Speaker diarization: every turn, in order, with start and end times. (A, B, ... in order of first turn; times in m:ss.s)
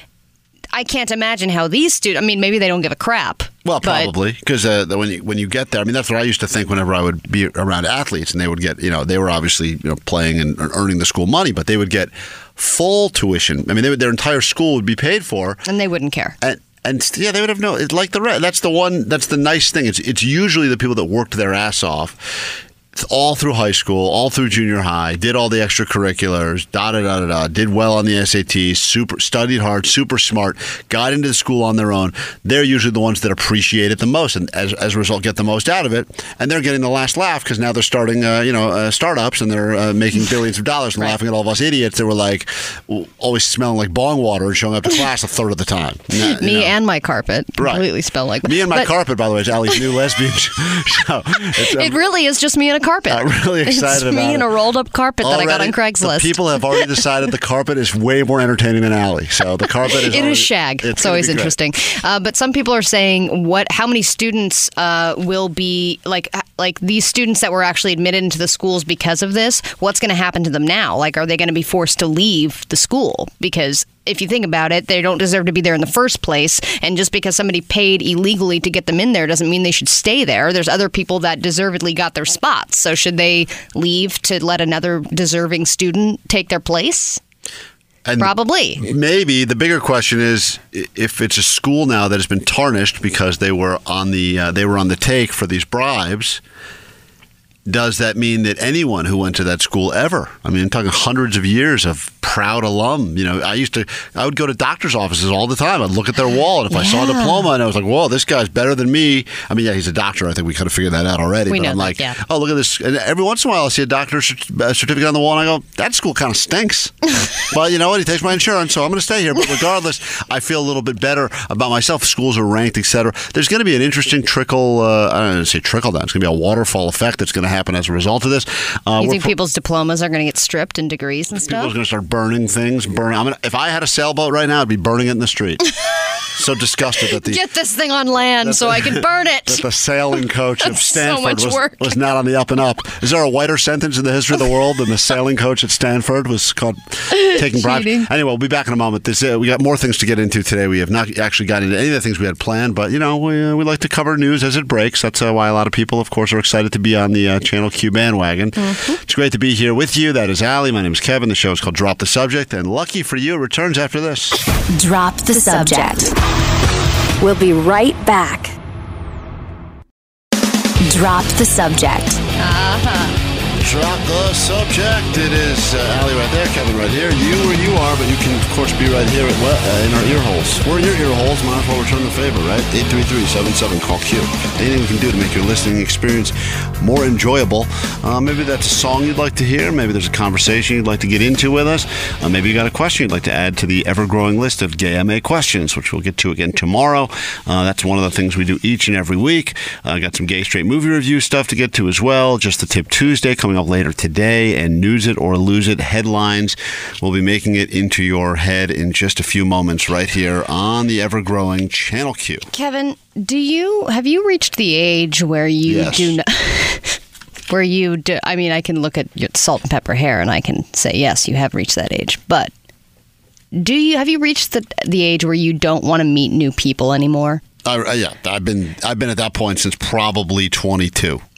0:00.7-0:04.1 A
0:03.6-0:15.6 B
0:15.7-0:16.4 A
0:16.4-0:46.7 B
0:46.2-0:48.9 A
0:47.6-0:47.9 B
0:48.4-0:52.0 B
0:51.6-0:56.4 A
0:53.1-0:54.5 B
0:55.2-1:01.5 B
1:00.0-1:27.2 A
1:28.1-1:36.4 B
1:28.2-1:28.8 A
1:37.7-2:09.3 B
1:46.7-1:47.5 A
1:51.5-1:52.2 A
2:09.0-2:11.7 A
2:11.4-2:15.7 B
2:16.4-2:17.4 B
2:17.2-2:19.6 A
2:18.4-2:44.4 B
2:20.6-2:22.0 A
2:27.1-2:28.1 A
2:38.6-2:39.0 A
2:44.7-2:46.2 C
2:47.2-2:48.6 C
2:50.8-2:52.2 C
2:52.4-2:53.2 A
2:53.6-3:32.5 B
3:32.5-3:37.0 A
3:35.7-3:36.2 B
3:37.5-3:42.5 A
3:43.5-3:47.4 A
3:47.6-3:51.2 B